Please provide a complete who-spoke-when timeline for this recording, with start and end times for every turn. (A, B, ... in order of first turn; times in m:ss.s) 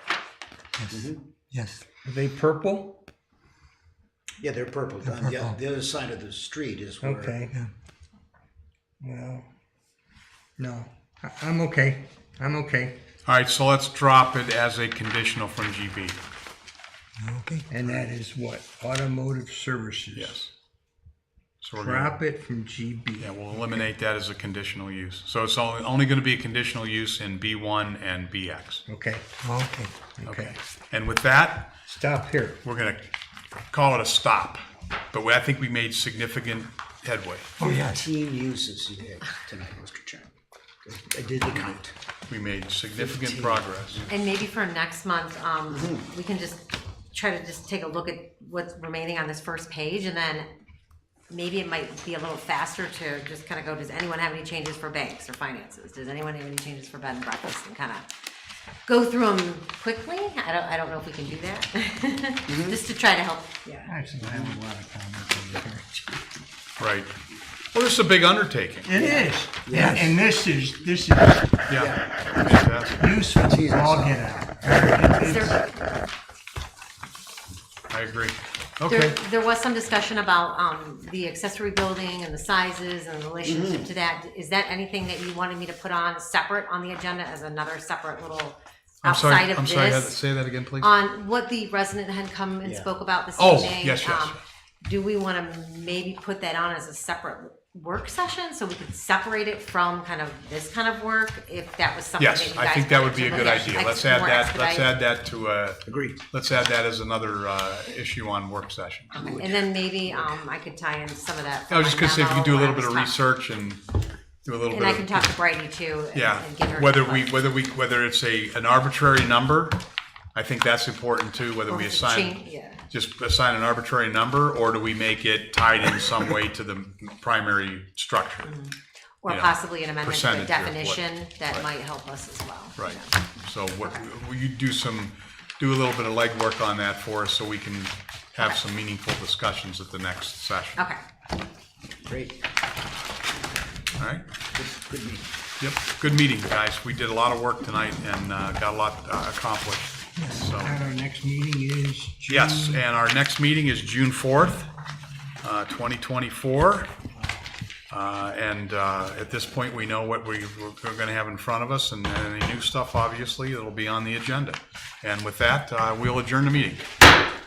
0:00.8-0:01.8 A
0:00.9-0:01.2 B
0:02.0-0:03.0 C
0:04.4-0:07.4 B
0:05.0-0:05.6 A
0:07.0-0:07.6 C
0:09.0-0:09.5 C
0:10.6-0:13.0 C
0:13.2-0:16.2 D
0:17.2-0:17.7 A
0:17.7-0:20.4 C
0:20.1-0:20.5 D
0:21.6-0:22.2 D
0:21.8-0:23.8 C
0:23.2-0:28.8 D
0:28.9-0:29.3 C
0:29.4-0:29.9 A
0:30.2-0:30.6 C
0:30.3-0:31.7 D
0:31.9-0:32.6 C
0:32.6-0:33.1 D
0:33.7-0:37.5 D
0:37.6-0:38.1 A
0:37.6-0:40.3 B
0:40.8-0:41.9 B
0:42.3-0:44.1 D
0:43.0-0:44.1 B
0:44.1-0:50.5 E
0:45.7-0:46.0 B
0:51.3-0:58.1 E
0:58.9-1:04.0 E
1:02.5-1:02.8 B
1:03.9-1:06.2 C
1:06.8-1:07.1 D
1:07.7-1:08.9 D
1:08.8-1:11.6 C
1:09.0-1:10.2 B
1:11.7-1:13.1 D
1:11.8-1:12.7 B
1:13.0-1:15.6 C
1:13.3-1:14.2 B
1:15.2-1:15.7 E
1:17.9-1:19.1 D
1:18.9-1:30.2 E
1:23.4-1:23.9 B
1:29.0-1:30.9 D
1:30.8-1:45.0 E
1:32.6-1:32.9 B
1:33.4-1:34.4 D
1:42.2-1:49.3 D
1:45.9-1:46.2 B
1:49.1-1:50.4 B
1:49.2-1:53.2 E
1:51.7-1:53.8 D
1:54.4-1:55.3 D
1:54.7-1:57.3 E
1:56.1-1:59.8 D
2:00.4-2:08.5 D
2:01.7-2:02.8 E
2:08.4-2:13.1 E
2:09.3-2:11.7 D
2:12.8-2:20.8 D
2:20.8-2:21.0 E
2:22.0-2:22.4 B
2:24.0-2:24.3 D
2:24.5-2:25.3 B
2:25.6-2:30.8 D
2:30.3-2:32.8 C
2:32.3-2:34.7 D
2:35.4-2:36.9 D
2:37.9-2:46.9 D